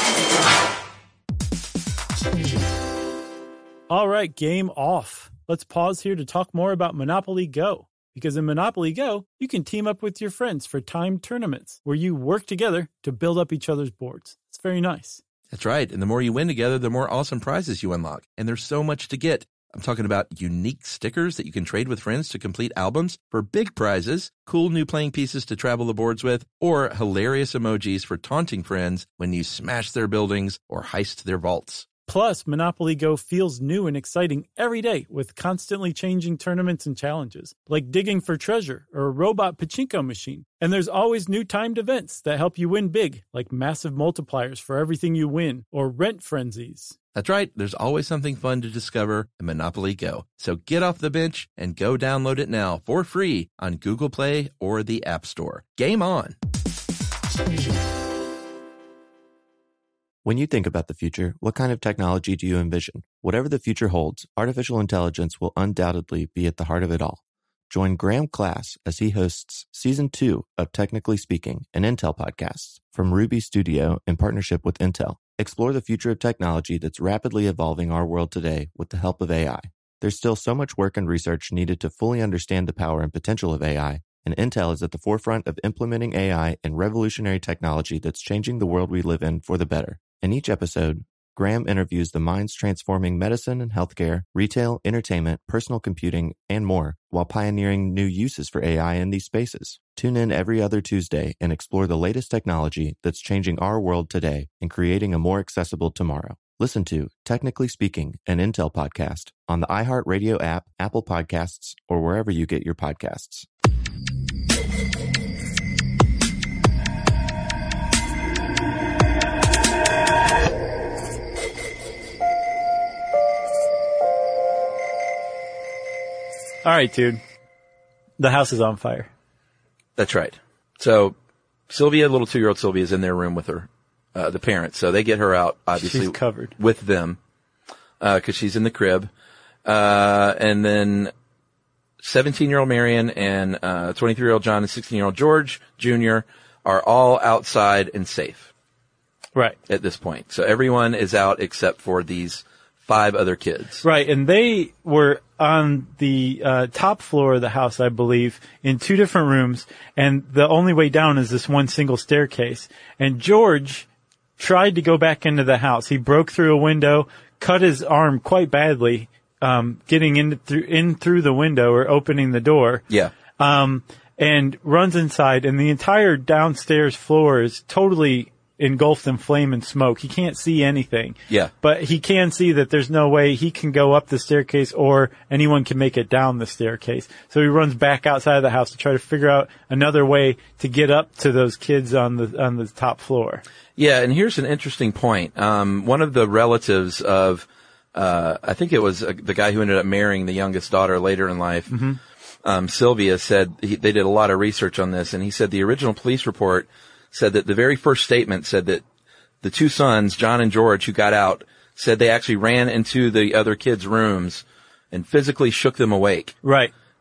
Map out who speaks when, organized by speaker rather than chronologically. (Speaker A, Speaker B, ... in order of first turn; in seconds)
Speaker A: 3.9-15.2, 32.1-47.0, 126.6-127.2, 128.2-129.1, 135.8-136.5, 153.8-163.9, 164.4-172.8, 173.4-193.4, 201.7-202.0, 216.4-216.7
Speaker B: 15.5-31.9, 47.1-56.4, 130.0-131.2, 131.7-137.2, 138.0-139.1, 139.7-141.1, 142.0-148.5, 149.7-153.8, 193.8-201.8, 202.4-208.8, 209.4-216.4
Speaker C: 60.2-113.5